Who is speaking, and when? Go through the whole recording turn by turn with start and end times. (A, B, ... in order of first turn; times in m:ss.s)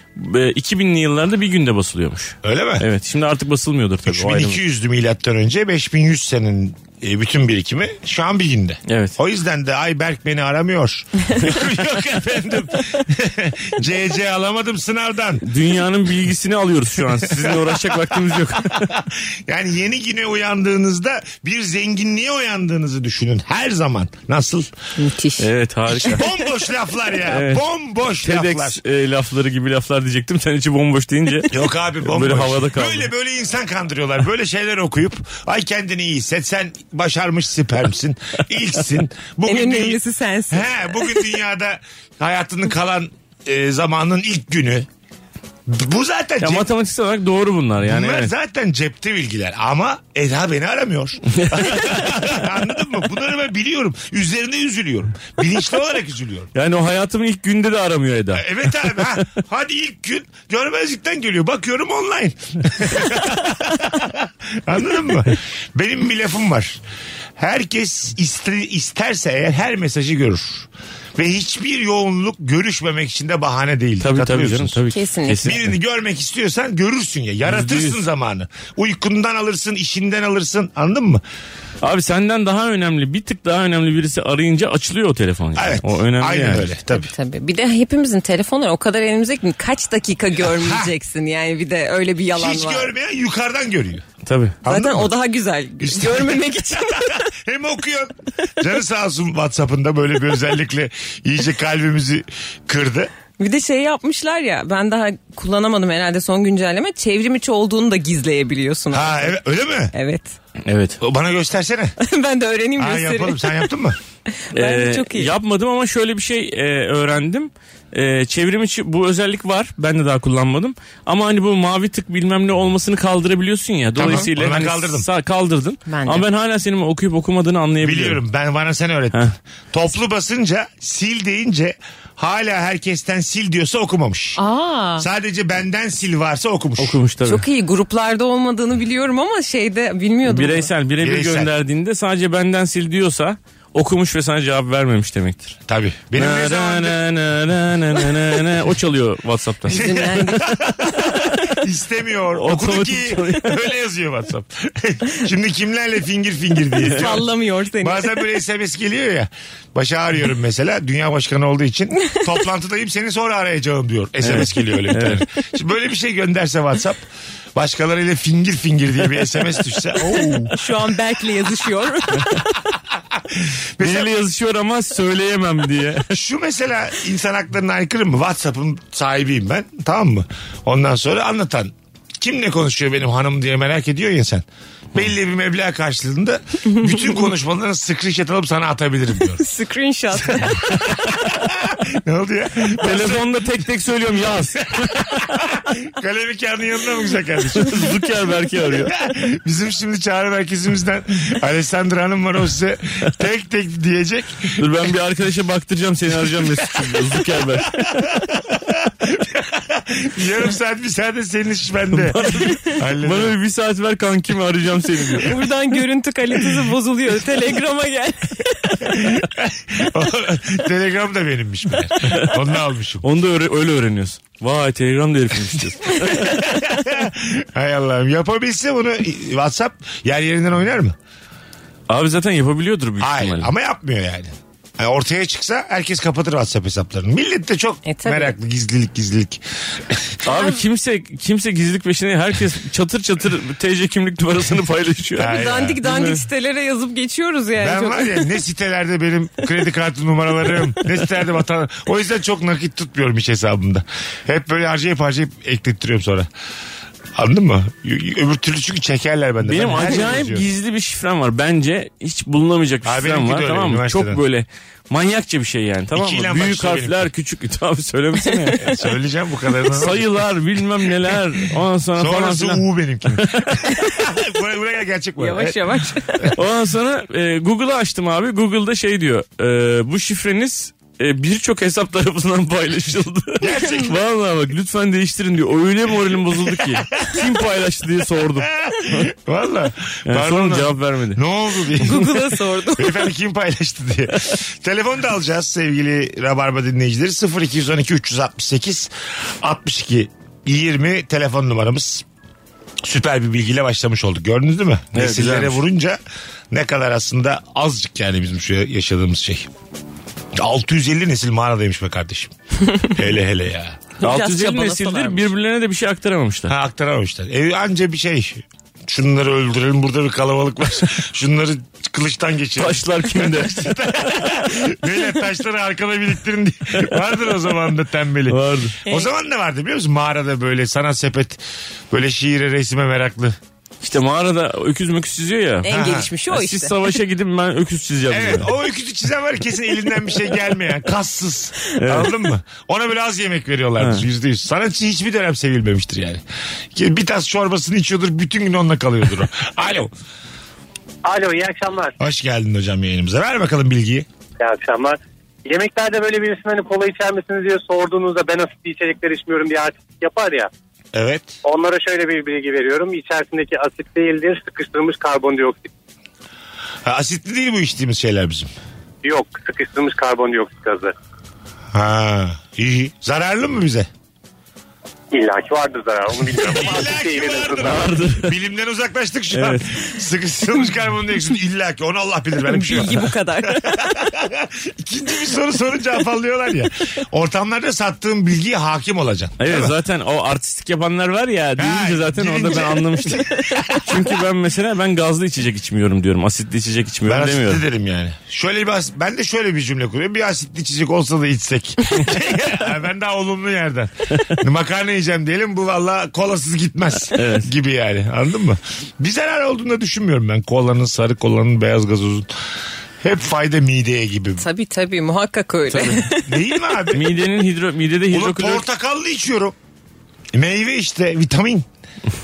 0:00.2-0:04.6 A
0:02.4-0:02.8 B
0:04.1-0:15.4 B
0:08.9-0:09.2 A
0:15.4-0:18.9 A
0:17.2-0:24.7 B
0:25.0-0:25.5 C
0:25.4-0:26.2 A
0:25.9-0:28.8 B
0:27.3-0:27.6 A
0:28.2-0:33.1 A
0:31.5-0:44.9 B
0:39.5-0:41.2 C
0:45.7-0:46.7 B
0:46.4-0:48.3 A
0:47.8-0:56.5 B
0:51.3-0:52.2 A
0:56.6-0:59.3 A
0:58.3-1:06.8 B
1:07.4-1:14.8 B
1:14.0-1:15.7 A
1:14.9-1:15.6 C
1:15.4-1:21.2 B
1:17.5-1:18.0 A
1:21.8-1:26.7 A
1:25.6-1:27.1 B
1:27.0-1:32.9 C
1:30.4-1:30.9 B
1:32.4-1:34.1 B
1:34.3-1:34.6 A
1:34.6-1:35.1 B
1:34.7-1:37.3 C
1:35.8-1:43.1 B
1:43.4-1:49.4 C
1:48.9-1:49.9 B
1:49.9-1:50.4 C
1:50.6-1:51.0 A
1:51.0-1:52.0 B
1:52.0-1:53.7 C
1:52.8-1:54.0 B
1:54.4-1:55.3 C
1:54.6-2:08.2 A
2:04.0-2:05.1 B
2:05.9-2:06.3 C
2:07.8-2:14.4 B
2:14.4-2:15.1 C
2:15.0-2:17.0 B
2:16.8-2:17.5 A
2:17.3-2:20.7 C
2:20.3-2:25.6 A
2:21.0-2:21.5 B
2:25.7-2:27.0 B
2:26.2-2:29.9 A
2:29.7-2:31.4 C
2:29.7-2:37.3 B
2:32.3-2:33.6 A
2:36.9-2:38.2 C
2:37.8-2:47.0 B
2:44.2-2:45.2 A
2:47.6-2:50.5 B
2:50.5-2:52.3 C
2:53.1-2:54.1 B
2:53.8-2:56.1 A
2:56.1-3:09.4 B
3:09.4-3:11.2 C
3:10.4-3:13.4 B
3:12.8-3:15.1 A
3:14.7-3:18.0 B
3:17.6-3:18.9 A
3:18.9-3:24.6 B
3:24.6-3:28.0 A
3:26.6-3:33.4 B
3:31.9-3:35.4 A
3:35.2-3:39.2 C
3:38.8-3:43.0 B
3:43.0-3:46.4 A
3:46.1-3:51.0 B
3:51.9-3:53.5 A
3:53.0-4:00.2 B
3:57.8-3:58.4 C
4:00.2-4:06.2 A
4:00.3-4:00.6 C
4:05.2-4:05.8 B
4:05.2-4:08.3 C
4:07.6-4:16.3 B
4:17.2-4:20.5 B
4:19.4-4:28.7 A
4:22.8-4:24.2 B
4:25.9-4:27.1 B
4:28.6-4:30.3 B
4:29.7-4:33.6 A
4:30.8-4:31.2 B
4:32.0-4:36.4 B
4:35.2-4:36.3 C
4:36.4-4:49.1 A
4:43.4-4:44.0 B
4:48.4-4:52.1 B
4:50.1-4:51.2 A
4:51.8-4:53.1 C
4:52.8-5:02.0 B
5:02.8-5:06.0 B
5:04.9-5:05.6 A
5:06.5-5:09.5 B
5:10.4-5:12.3 B
5:12.8-5:13.8 B
5:14.0-5:15.3 C
5:14.0-5:16.5 A
5:16.5-5:33.4 B
5:22.6-5:24.4 A
5:28.3-5:28.8 A
5:33.8-5:38.5 A
5:35.6-5:36.7 C
5:35.7-5:36.1 B
5:38.1-5:49.9 B
5:41.8-5:42.2 A
5:43.8-5:44.0 A
5:51.0-5:52.0 D
5:52.0-5:54.1 B
5:54.4-6:00.5 D
6:00.9-6:01.4 B
6:01.4-6:05.7 D
6:06.8-6:08.5 B
6:09.0-6:10.9 D
6:11.7-6:13.9 B
6:15.1-6:17.8 D
6:16.4-6:29.7 B
6:17.6-6:18.4 A
6:19.3-6:19.7 A
6:22.4-6:24.0 C
6:29.4-6:33.3 A
6:31.6-6:34.2 B
6:33.8-6:37.6 A
6:37.1-6:52.3 B
6:47.1-6:47.5 A
6:53.0-6:54.4 B
6:54.4-6:56.3 C
6:55.7-6:56.0 A
6:56.3-6:57.2 B
6:56.9-6:58.6 A
6:58.1-6:59.6 B
7:00.3-7:01.7 B